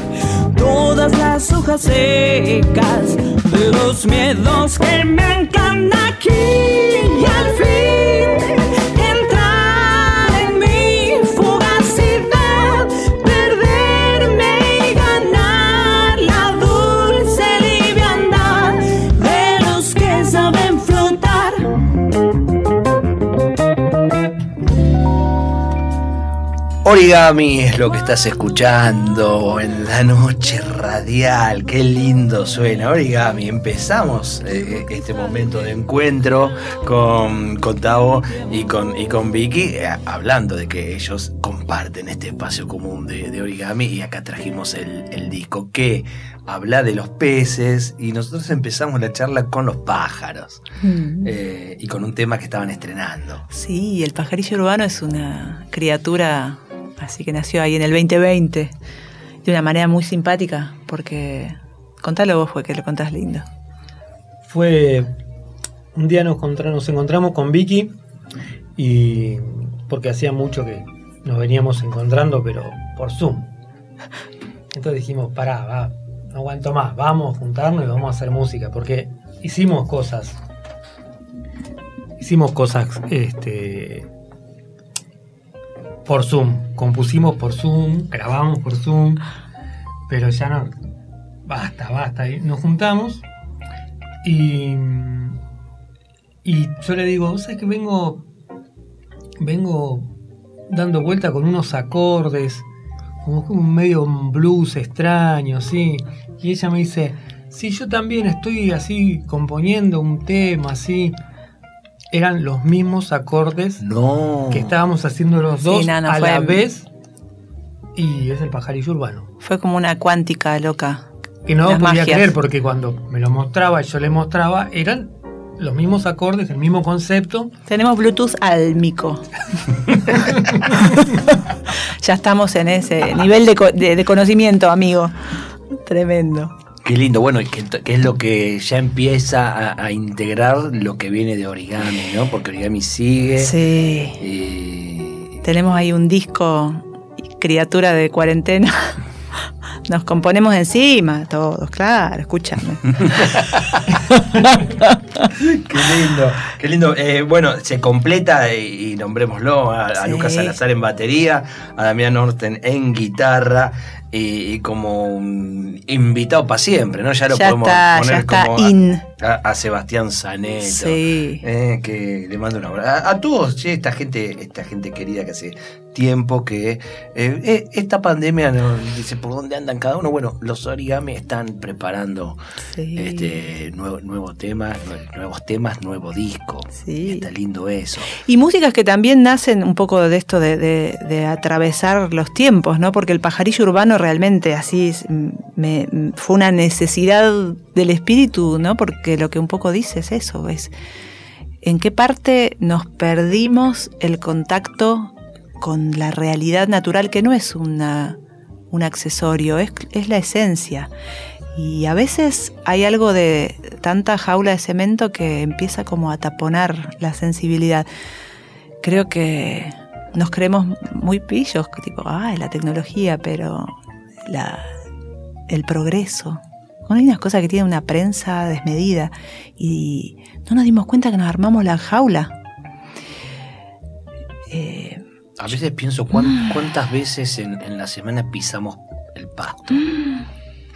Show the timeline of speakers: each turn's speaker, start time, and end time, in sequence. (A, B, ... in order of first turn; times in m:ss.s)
0:00.5-0:21.8 A
0:26.8-0:50.6 B
0:50.8-0:51.3 C
0:51.2-0:53.4 B
0:53.5-0:58.7 C
0:59.4-1:03.4 C
1:04.4-1:05.1 D
1:05.9-1:07.9 D
1:08.8-1:13.5 D
1:14.7-1:20.4 D
1:22.2-1:24.1 D
1:26.0-1:29.2 D
1:30.1-1:30.7 D
1:31.4-1:33.2 D
1:34.2-1:35.4 D
1:36.4-1:38.2 D
1:39.4-1:40.1 D
1:40.7-1:42.6 D
1:43.2-1:51.2 D
1:52.1-1:53.8 D
1:53.8-1:54.8 B
1:54.5-1:56.9 D
1:55.6-1:56.6 C
1:58.0-1:59.3 D
1:59.4-2:01.1 C
2:01.4-2:07.5 D
2:01.6-2:02.3 C
2:07.7-2:09.2 C
2:10.7-2:11.2 C
2:12.0-2:15.2 C
2:15.7-2:16.5 C
2:16.8-2:23.5 B
2:23.4-2:24.2 C
2:24.2-2:25.4 B
2:25.4-2:26.8 C
2:27.4-2:29.0 C
2:29.9-2:33.2 C
2:33.2-2:33.4 B
2:35.2-3:02.4 B
2:40.0-2:40.6 C
2:47.3-2:49.1 C
2:50.6-2:51.4 C
3:02.7-3:03.3 C
3:03.0-3:08.1 B
3:06.8-3:07.3 C
3:08.1-3:20.7 C
3:21.6-3:28.2 C
3:28.7-3:30.9 C
3:31.5-3:37.9 C
3:38.8-3:44.7 C
3:45.5-3:52.3 C
3:54.5-3:55.0 C
3:55.4-3:59.9 B